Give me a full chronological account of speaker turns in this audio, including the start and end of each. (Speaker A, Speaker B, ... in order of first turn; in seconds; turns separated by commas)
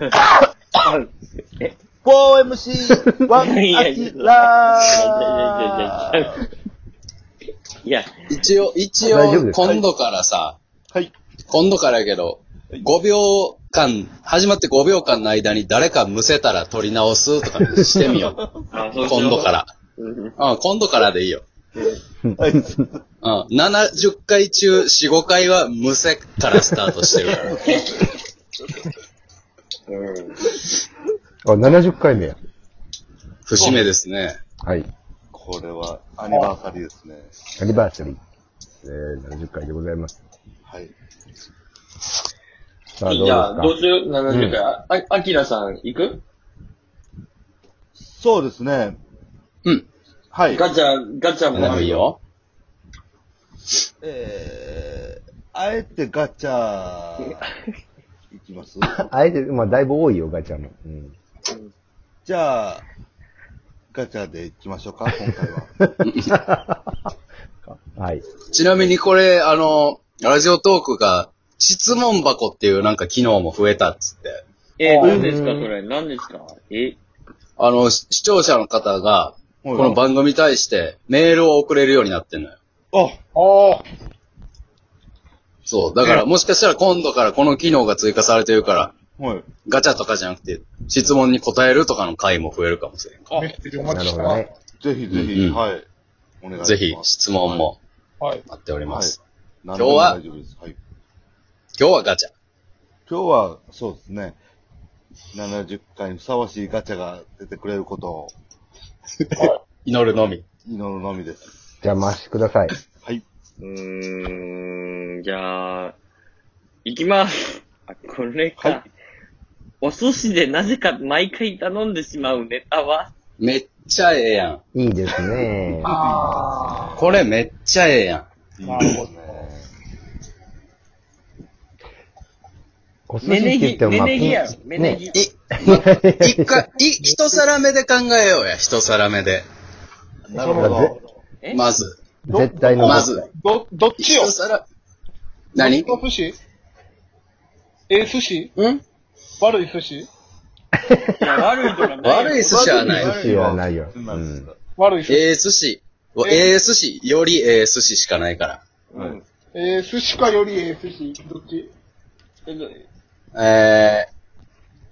Speaker A: 0.8-1.7, Speaker B: 2.0-6.4, Speaker A: 3.4-6.4, Speaker A: 7.8-8.1, Speaker C: 8.3-10.6, Speaker D: 9.0-9.6, Speaker C: 11.5-18.4, Speaker B: 18.1-18.6, Speaker A: 18.7-20.4, Speaker C: 19.0-19.7, Speaker C: 20.4-21.4, Speaker D: 22.2-22.8, Speaker B: 22.4-23.0, Speaker C: 23.2-27.6, Speaker B: 27.1-28.1, Speaker A: 27.6-28.0, Speaker A: 29.9-30.4, Speaker D: 31.4-32.4, Speaker C: 33.5-34.4, Speaker B: 33.5-33.9, Speaker B: 35.3-37.3, Speaker D: 37.6-38.2, Speaker D: 38.8-40.1, Speaker B: 40.6-40.9, Speaker D: 43.0-43.8, Speaker A: 43.0-46.2, Speaker D: 44.3-44.6, Speaker B: 48.0-49.0, Speaker B: 50.3-50.7, Speaker A: 50.5-52.0, Speaker C: 51.5-52.2, Speaker B: 54.0-57.5, Speaker B: 58.3-59.0, Speaker D: 58.9-61.1, Speaker B: 62.2-62.8, Speaker B: 63.9-65.8, Speaker C: 66.0-66.3, Speaker D: 66.2-67.1, Speaker D: 67.7-68.2, Speaker C: 68.5-74.4, Speaker A: 74.8-77.0, Speaker E: 74.8-75.2, Speaker D: 75.0-75.7, Speaker C: 77.6-82.5, Speaker B: 79.6-80.0, Speaker B: 82.9-83.2, Speaker E: 83.3-83.8, Speaker C: 85.7-88.9, Speaker B: 89.2-89.5, Speaker C: 89.6-93.5, Speaker E: 93.3-94.5, Speaker D: 93.8-94.5, Speaker B: 94.8-95.8, Speaker C: 95.1-95.6, Speaker B: 96.4-97.7, Speaker C: 96.6-97.8, Speaker C: 98.5-99.2, Speaker B: 98.8-100.8, Speaker C: 99.7-100.2, Speaker C: 101.8-102.3, Speaker B: 103.1-104.4, Speaker B: 105.3-108.3, Speaker C: 109.2-110.4, Speaker B: 110.6-111.5, Speaker D: 111.8-112.7, Speaker A: 113.6-116.0, Speaker A: 116.8-118.9, Speaker A: 119.8-123.1, Speaker C: 123.4-124.6, Speaker D: 124.7-125.9, Speaker E: 125.8-126.9, Speaker B: 125.9-127.2, Speaker C: 127.0-128.2, Speaker B: 128.6-129.7, Speaker E: 128.6-129.4, Speaker D: 133.1-135.0, Speaker A: 133.2-135.2, Speaker C: 135.1-139.4, Speaker D: 135.6-136.6, Speaker B: 140.3-141.0, Speaker E: 140.3-140.8, Speaker D: 140.5-140.9, Speaker C: 141.5-141.9, Speaker D: 142.3-143.2, Speaker E: 142.3-144.3, Speaker C: 142.8-143.3, Speaker C: 144.0-144.6, Speaker C: 145.5-146.0, Speaker E: 145.6-146.3, Speaker E: 147.9-148.5, Speaker C: 148.6-148.8, Speaker E: 149.4-150.1, Speaker D: 150.9-151.1, Speaker A: 151.1-152.8, Speaker C: 152.0-153.2, Speaker B: 152.4-154.6, Speaker D: 152.9-154.4, Speaker E: 154.8-155.2, Speaker C: 155.1-158.6, Speaker E: 156.2-156.5, Speaker A: 158.9-159.2, Speaker E: 159.5-161.7, Speaker A: 162.4-162.8, Speaker C: 163.3-164.1